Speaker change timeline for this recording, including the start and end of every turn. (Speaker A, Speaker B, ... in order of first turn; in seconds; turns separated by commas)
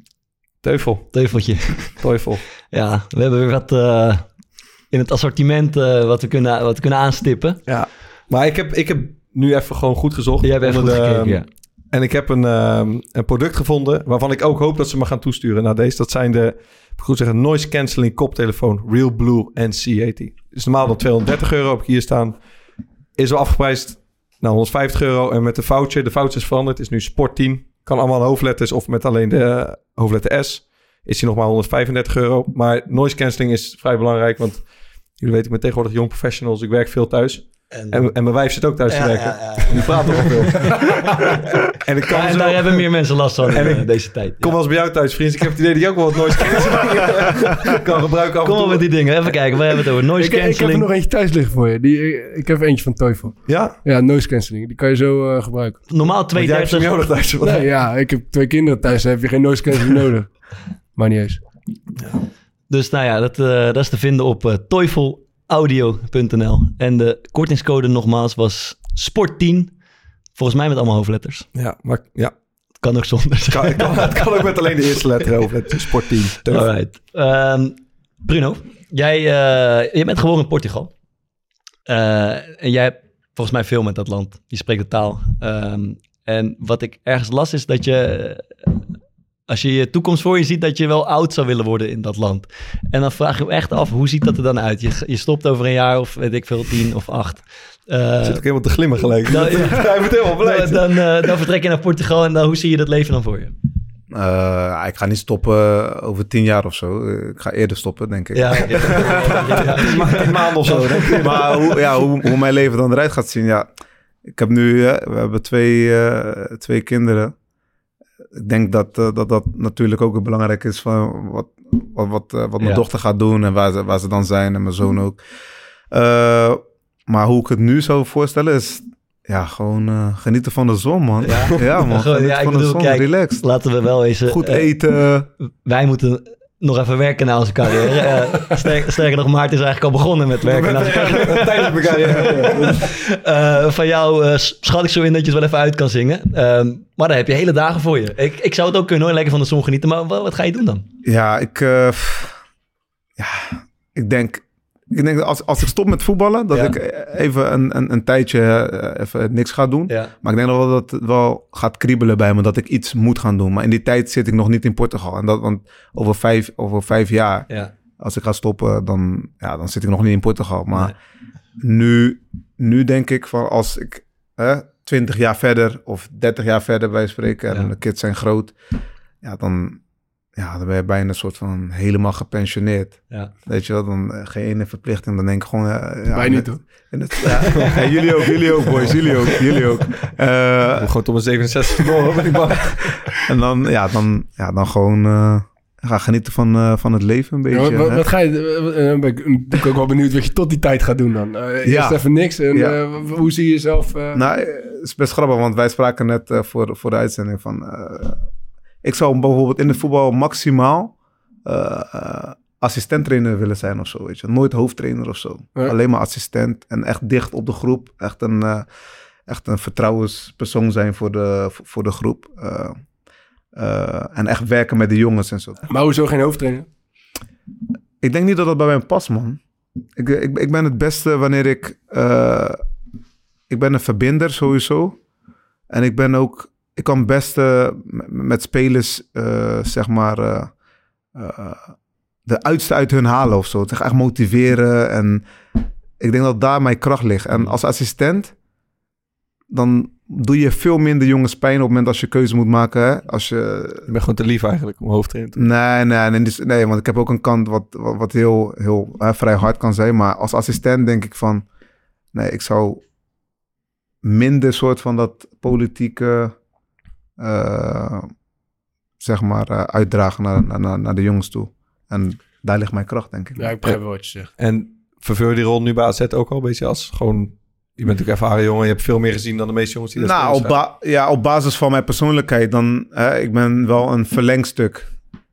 Speaker A: 0.6-2.4, Speaker B: 1.1-2.1, Speaker B: 2.7-7.6, Speaker A: 7.7-22.4, Speaker B: 10.4-11.5, Speaker A: 23.2-40.9, Speaker B: 37.7-38.1, Speaker B: 38.9-40.7, Speaker A: 41.8-42.9, Speaker B: 42.1-44.6, Speaker A: 43.5-49.2, Speaker B: 48.4-50.9, Speaker C: 50.2-55.9, Speaker A: 53.5-53.8, Speaker B: 55.9-56.9, Speaker A: 56.4-57.7, Speaker C: 57.4-61.5, Speaker B: 62.7-69.8, Speaker B: 70.3-71.5, Speaker A: 71.5-72.4, Speaker B: 72.8-74.3, Speaker A: 73.5-76.7, Speaker B: 76.5-80.9, Speaker B: 81.9-88.8, Speaker B: 89.5-98.5, Speaker A: 98.2-101.0, Speaker B: 99.3-103.5, Speaker D: 104.1-109.4, Speaker B: 108.3-111.5, Speaker A: 109.8-111.6, Speaker D: 111.0-113.7, Speaker D: 114.3-117.3, Speaker D: 118.4-125.2, Speaker D: 125.9-133.4, Speaker B: 131.2-134.7, Speaker D: 134.2-135.3, Speaker B: 135.6-150.9, Speaker A: 140.4-142.9, Speaker D: 151.0-152.4, Speaker D: 153.2-167.5, Speaker B: 159.9-160.1, Speaker D: 168.0-170.9, Speaker D: 171.6-178.6, Speaker D: 179.2-179.8, Speaker D: 180.4-190.9, Speaker C: 186.1-186.6, Speaker C: 187.2-188.3, Speaker A: 190.8-193.0, Speaker D: 193.3-198.1, Speaker C: 197.5-204.2, Speaker D: 201.6-202.8, Speaker D: 204.1-208.2, Speaker D: 208.8-218.7, Speaker D: 219.3-222.8, Speaker D: 223.6-225.7, Speaker C: 225.7-226.7, Speaker D: 228.0-229.4, Speaker D: 230.0-232.6, Speaker D: 233.5-235.0, Speaker D: 235.7-240.5, Speaker D: 241.2-241.7, Speaker D: 242.3-245.2, Speaker D: 246.0-248.3, Speaker D: 249.5-253.9, Speaker A: 253.9-255.4, Speaker D: 255.4-261.5, Speaker D: 262.1-262.8, Speaker D: 264.0-266.4, Speaker D: 267.2-268.1, Speaker D: 269.0-273.6, Speaker C: 273.4-274.3, Speaker A: 274.4-280.6, Speaker D: 280.0-284.9